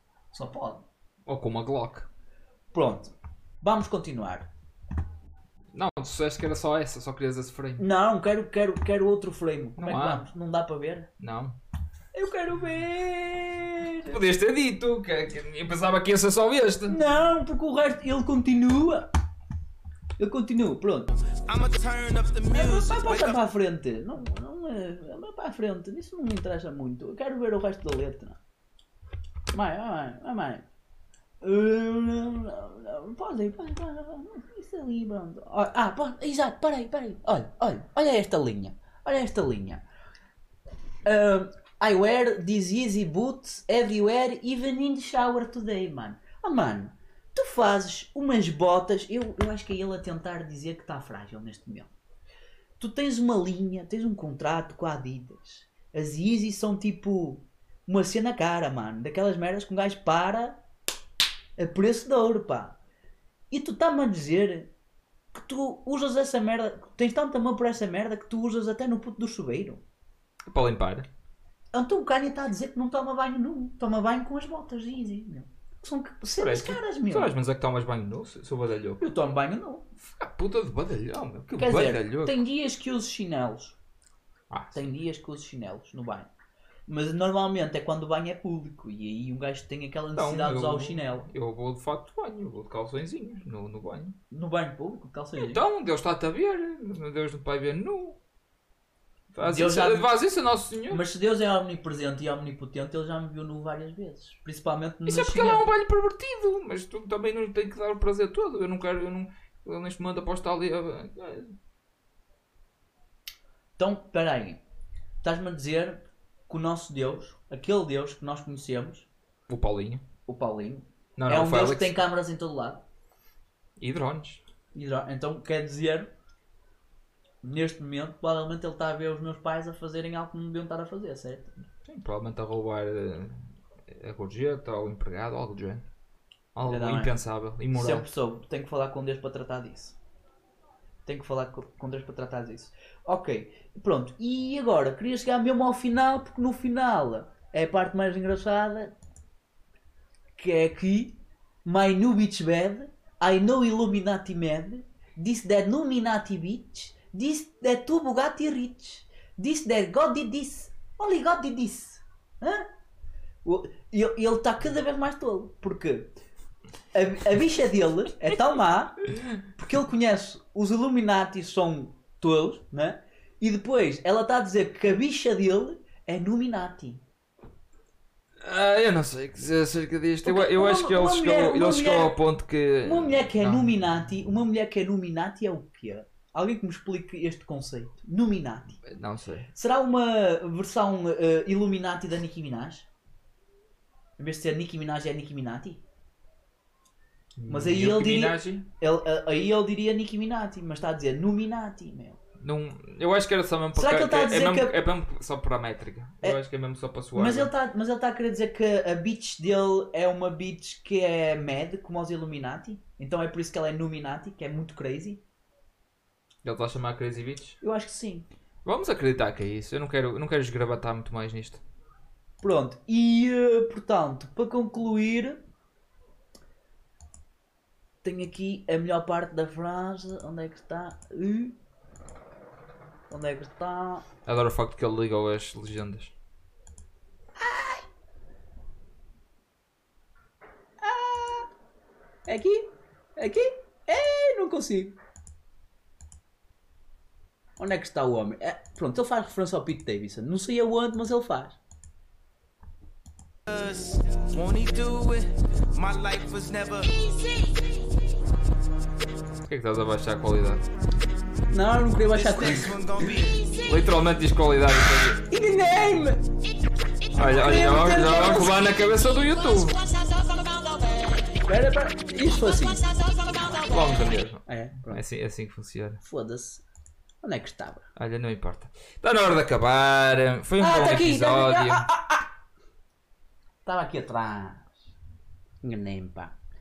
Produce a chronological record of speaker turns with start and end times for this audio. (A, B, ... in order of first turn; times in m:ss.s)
0:00.3-0:00.9 A
0:01.3-0:02.1 B
0:02.7-0:04.5 A
0:05.7-0:07.8 B
0:07.8-0:11.1 A
0:09.8-0:10.2 B
0:11.2-0:11.6 B
0:12.1-0:14.2 A
0:14.0-0:17.0 B
0:16.9-0:19.1 A
0:20.2-0:21.1 A
0:21.2-0:23.4 C
0:22.5-0:28.4 A
0:29.5-0:30.7 A
0:31.4-0:39.8 A
0:41.0-0:51.9 A
0:52.8-1:00.6 A
1:01.6-1:02.8 A
1:03.5-1:04.7 A
1:05.3-1:09.8 A
1:10.5-1:11.1 B
1:11.7-1:17.3 A
1:16.4-1:19.0 B
1:19.0-1:19.9 A
1:20.0-1:22.4 B
1:21.6-1:23.8 A
1:24.5-1:24.8 B
1:24.8-1:26.3 A
1:26.9-1:31.3 A
1:30.2-1:34.2 B
1:34.3-1:35.6 A
1:35.4-1:38.2 B
1:39.3-1:41.0 B
1:39.4-1:40.1 A
1:40.9-1:45.7 A
1:45.1-1:51.6 B
1:53.8-1:54.6 A
1:55.2-1:59.1 A
1:59.5-2:00.0 B
2:00.3-2:02.8 A
2:01.2-2:02.0 B
2:03.8-2:04.4 B
2:04.7-2:06.1 A
2:07.4-2:11.6 A
2:11.8-2:15.9 B
2:16.6-2:18.1 B
2:16.7-2:17.2 A
2:17.7-2:20.0 A
2:21.0-2:29.0 A
2:30.4-2:42.7 A
2:43.4-2:46.1 A
2:46.9-2:57.0 A
2:58.4-3:03.7 B
3:00.2-3:02.2 A
3:02.8-3:08.8 A
3:08.9-3:09.5 B
3:09.5-3:12.9 A
3:14.2-3:15.8 A
3:17.4-3:18.7 B
3:17.5-3:22.2 A
3:22.4-3:27.5 B
3:23.7-3:24.8 A
3:27.1-3:35.2 A
3:36.4-3:37.6 B
3:37.6-3:38.3 A
3:38.6-3:41.6 B
3:42.4-3:45.4 A
3:48.0-3:51.6 A
3:53.1-3:54.1 A
3:54.3-3:56.1 B
3:57.4-3:57.9 A
4:00.8-4:01.5 A
4:02.2-4:05.0 A
4:07.6-4:11.6 A
4:13.5-4:17.7 C
4:19.5-4:20.6 B
4:21.5-4:23.1 A
4:22.2-4:23.8 C
4:23.6-4:25.3 B
4:25.3-4:26.3 A
4:27.1-4:29.8 B
4:27.2-4:28.6 A
4:30.3-4:30.6 C
4:31.4-4:32.9 A
4:33.6-4:36.0 B
4:34.5-4:35.0 A
4:36.0-4:36.6 A
4:37.2-4:37.9 A
4:38.0-4:41.9 B
4:40.6-4:42.3 A
4:43.6-4:44.8 A
4:45.6-4:46.3 A